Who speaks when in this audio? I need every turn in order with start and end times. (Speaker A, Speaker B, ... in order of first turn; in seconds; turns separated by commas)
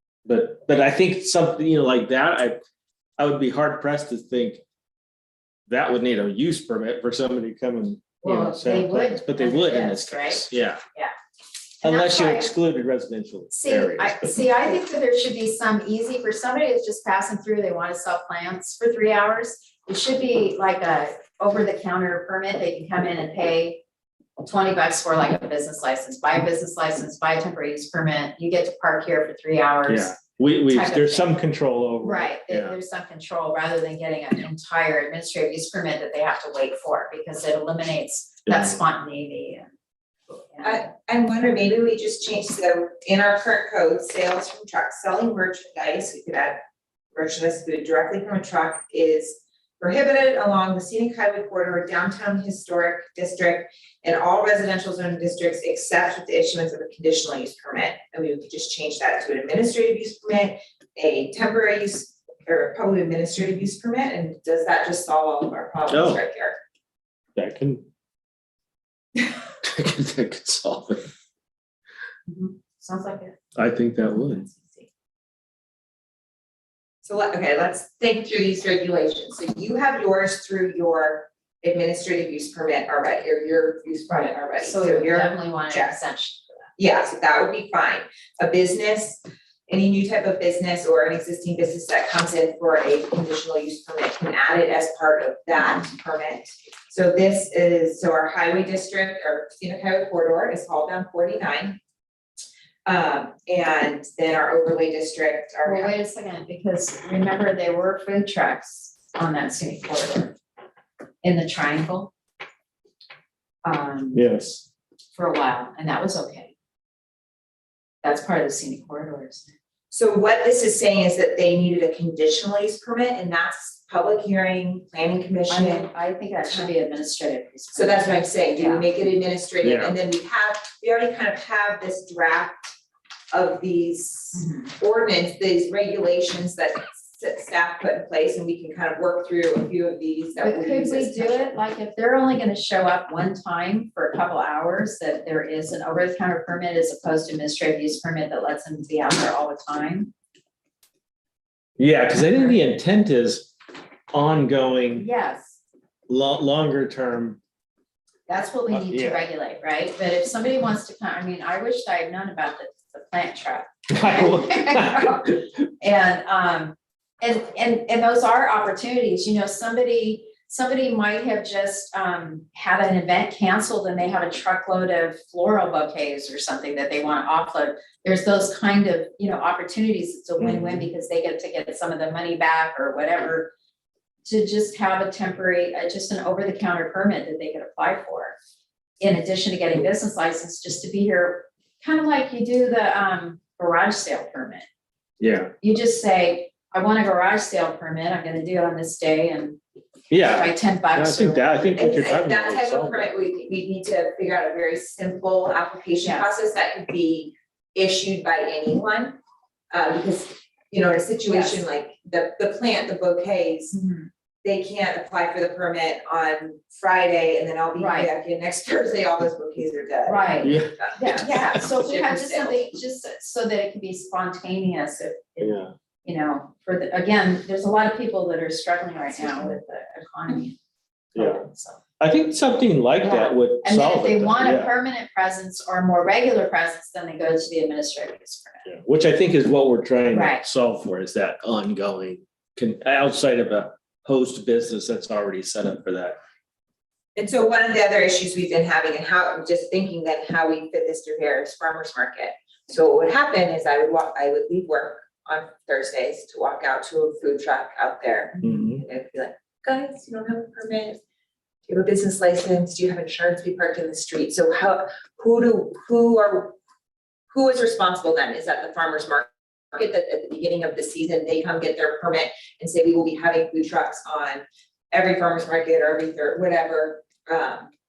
Speaker A: 0.2-2.6, Speaker A: 3.2-4.6, Speaker A: 5.7-10.8, Speaker B: 8.2-11.1, Speaker A: 11.8-14.5, Speaker B: 11.8-12.5, Speaker B: 13.5-23.8, Speaker B: 24.4-31.3, Speaker A: 29.9-32.8, Speaker B: 32.0-39.7, Speaker A: 38.5-38.8, Speaker B: 40.3-40.8, Speaker C: 40.6-46.6, Speaker C: 47.1-66.6, Speaker A: 65.9-66.2, Speaker A: 67.3-67.8, Speaker A: 69.6-71.1, Speaker B: 72.3-73.3, Speaker A: 73.6-74.5, Speaker B: 74.0-74.9, Speaker C: 77.0-86.0, Speaker B: 84.1-86.5, Speaker C: 86.8-101.8, Speaker C: 102.8-105.9, Speaker B: 105.6-110.3, Speaker B: 111.2-112.1, Speaker B: 113.6-114.2, Speaker A: 114.1-114.6, Speaker B: 115.1-116.5, Speaker B: 118.0-119.4, Speaker C: 119.9-125.9, Speaker B: 125.5-128.8, Speaker C: 127.7-132.7, Speaker A: 129.6-129.9, Speaker C: 133.3-141.6, Speaker B: 134.3-134.7, Speaker B: 140.4-150.1, Speaker A: 151.8-153.5, Speaker B: 152.1-152.6, Speaker A: 154.1-155.1, Speaker B: 154.9-155.6, Speaker A: 156.1-157.4, Speaker B: 158.3-183.5, Speaker A: 158.7-159.2, Speaker A: 163.9-165.4, Speaker A: 180.4-180.9, Speaker B: 184.2-188.3, Speaker B: 189.0-194.7, Speaker A: 195.2-195.5, Speaker B: 195.6-199.6, Speaker A: 200.1-203.1, Speaker B: 200.2-201.6, Speaker C: 201.7-209.2, Speaker B: 206.0-206.3, Speaker C: 209.7-213.8, Speaker B: 211.3-211.6, Speaker B: 213.7-214.1, Speaker C: 214.4-222.7, Speaker B: 217.8-218.1, Speaker B: 220.1-230.6, Speaker A: 220.4-220.7, Speaker A: 225.4-225.7, Speaker A: 231.1-231.4, Speaker B: 231.2-231.8, Speaker A: 232.0-234.7, Speaker B: 233.0-238.7, Speaker A: 238.7-246.2, Speaker B: 240.1-240.4, Speaker C: 247.1-261.0, Speaker A: 258.4-258.8, Speaker C: 261.7-266.6, Speaker C: 267.3-277.7